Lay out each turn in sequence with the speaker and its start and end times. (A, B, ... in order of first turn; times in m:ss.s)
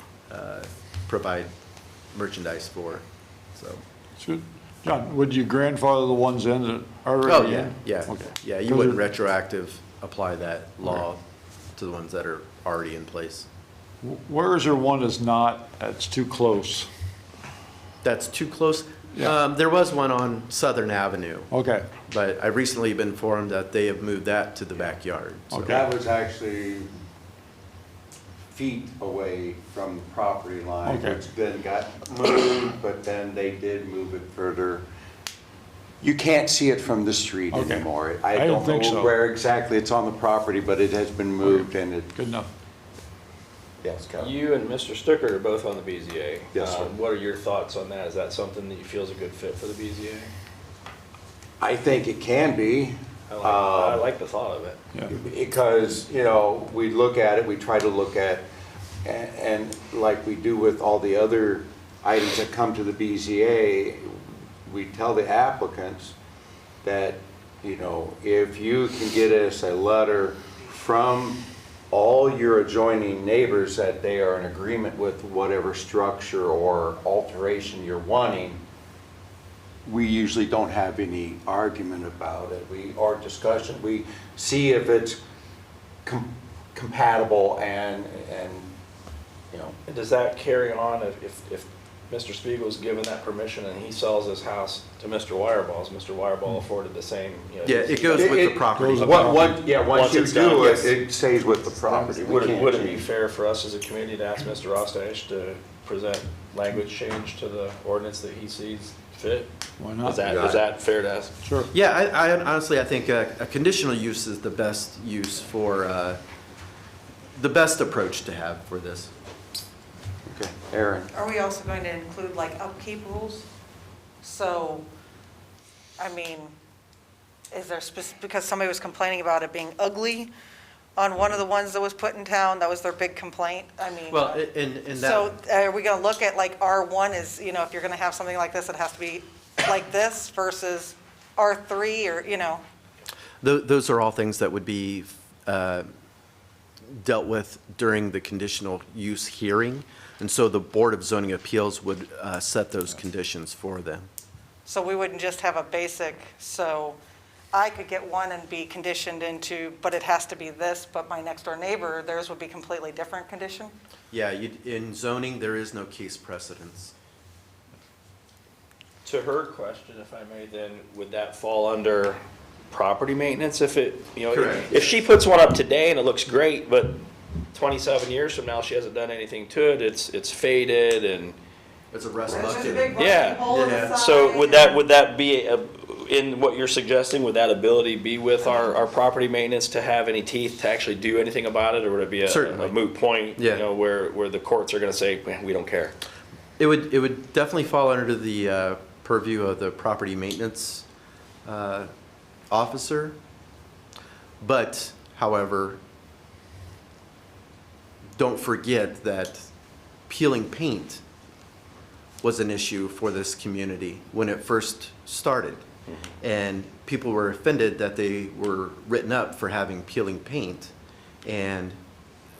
0:00.3-0:01.5 A
0:02.1-0:03.0 A
0:03.5-0:03.8 A
0:04.2-0:09.0 B
0:07.2-0:11.2 A
0:11.8-0:13.5 A
0:14.0-0:16.9 B
0:18.0-0:21.5 A
0:21.5-0:21.9 B
0:22.1-0:25.8 A
0:25.5-0:25.9 B
0:25.6-0:26.9 C
0:28.5-0:34.8 C
0:30.8-0:31.2 B
0:36.0-0:42.1 C
0:37.5-0:39.1 B
0:41.4-0:42.5 B
0:43.8-0:44.3 C
0:44.2-0:50.3 D
0:46.5-0:46.9 C
0:51.6-0:54.1 C
0:53.3-0:54.8 D
0:55.1-0:58.4 C
0:59.0-1:06.1 C
1:06.8-1:18.6 C
1:19.8-1:25.2 C
1:26.0-1:28.7 C
1:29.5-1:29.8 C
1:29.9-1:38.4 D
1:37.6-1:39.5 A
1:38.1-1:43.0 C
1:38.7-1:39.6 B
1:39.8-1:41.0 D
1:41.9-1:42.2 B
1:42.2-1:51.4 D
1:49.8-1:50.2 B
1:50.2-1:50.6 C
1:51.4-1:51.7 B
1:51.7-1:56.2 A
1:57.3-1:59.1 A
2:00.3-2:01.1 C
2:01.1-2:03.4 E
2:04.2-2:04.8 E
2:06.0-2:06.5 E
2:07.5-2:10.3 E
2:11.0-2:22.6 E
2:14.1-2:15.3 A
2:23.4-2:25.9 A
2:26.9-2:34.1 A
2:34.6-2:37.0 E
2:37.5-2:43.7 E
2:44.1-2:46.9 A
2:49.0-2:52.2 D
2:52.7-2:57.0 D
2:54.3-2:54.9 A
2:57.5-3:01.4 D
3:01.9-3:03.9 A
3:02.3-3:04.8 E
3:03.0-3:15.9 D
3:12.2-3:12.7 A
3:13.4-3:13.6 A
3:16.6-3:20.8 A
3:21.4-3:21.9 A
3:22.5-3:23.2 A
3:24.4-3:25.8 A
3:28.1-3:29.5 A
3:30.1-3:31.0 A
3:32.2-3:35.6 A
3:36.2-3:40.7 A
3:41.2-3:41.8 A